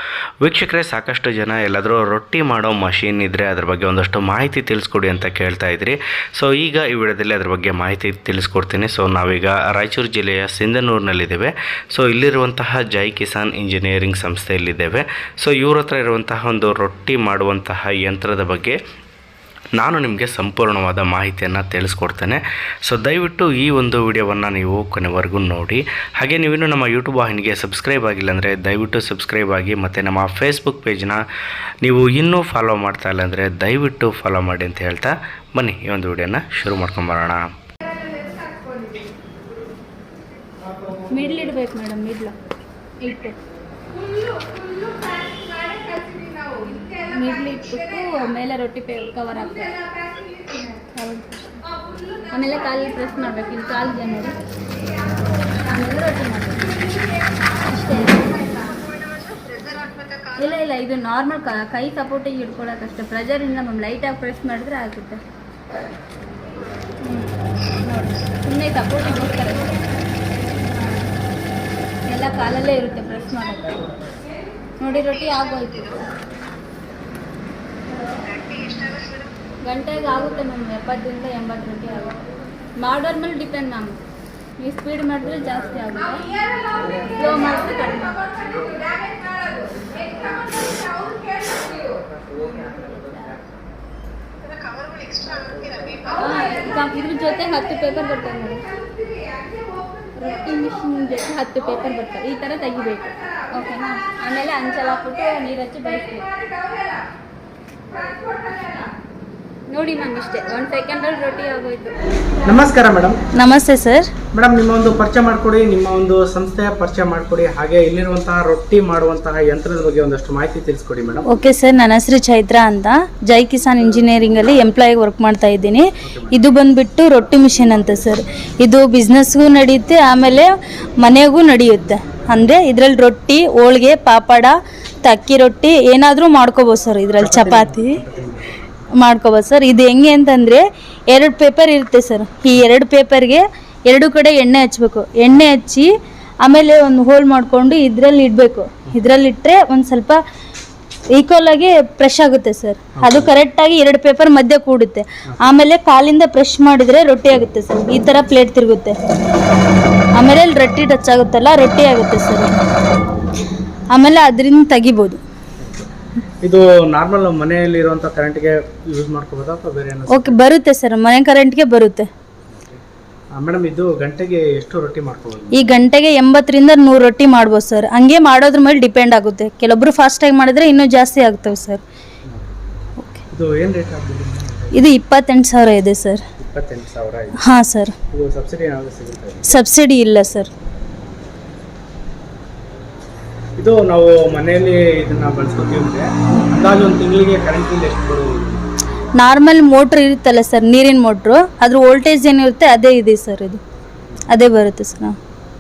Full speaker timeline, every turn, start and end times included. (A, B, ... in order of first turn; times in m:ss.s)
0:00.4-0:18.8 A
0:19.8-0:31.2 A
0:31.8-0:37.4 A
0:41.1-0:42.3 B
0:43.0-0:43.4 B
0:46.8-0:49.7 B
0:51.0-0:51.5 B
0:52.3-0:54.4 B
0:55.7-0:56.7 B
0:57.6-0:58.4 B
1:00.4-1:05.2 B
1:07.0-1:09.7 B
1:10.7-1:11.0 B
1:12.1-1:13.8 B
1:14.8-1:16.0 B
1:19.6-1:22.2 B
1:22.8-1:24.0 B
1:24.6-1:26.3 B
1:27.2-1:28.2 B
1:32.4-1:33.3 B
1:36.1-1:38.6 B
1:40.2-1:46.3 B
1:49.7-1:52.0 B
1:52.4-1:53.2 C
1:53.3-1:54.1 B
1:54.3-2:01.2 C
2:01.3-2:18.0 B
2:06.0-2:06.4 C
2:17.2-2:18.6 C
2:19.0-2:25.9 B
2:26.4-2:30.2 B
2:31.1-2:39.0 B
2:33.0-2:33.3 C
2:40.2-2:42.6 B
2:43.9-2:45.2 B
2:45.6-2:45.9 C
2:46.4-2:50.4 C
2:50.1-2:52.1 B
2:53.4-2:55.7 C
2:55.5-3:01.8 B
3:02.3-3:02.6 C
3:03.3-3:04.8 C
3:04.7-3:06.2 B
3:06.4-3:07.4 C
3:07.4-3:08.0 B
3:08.1-3:09.5 C
3:09.5-3:10.5 B
3:13.6-3:18.6 C
3:19.2-3:23.6 B
3:24.3-3:25.2 B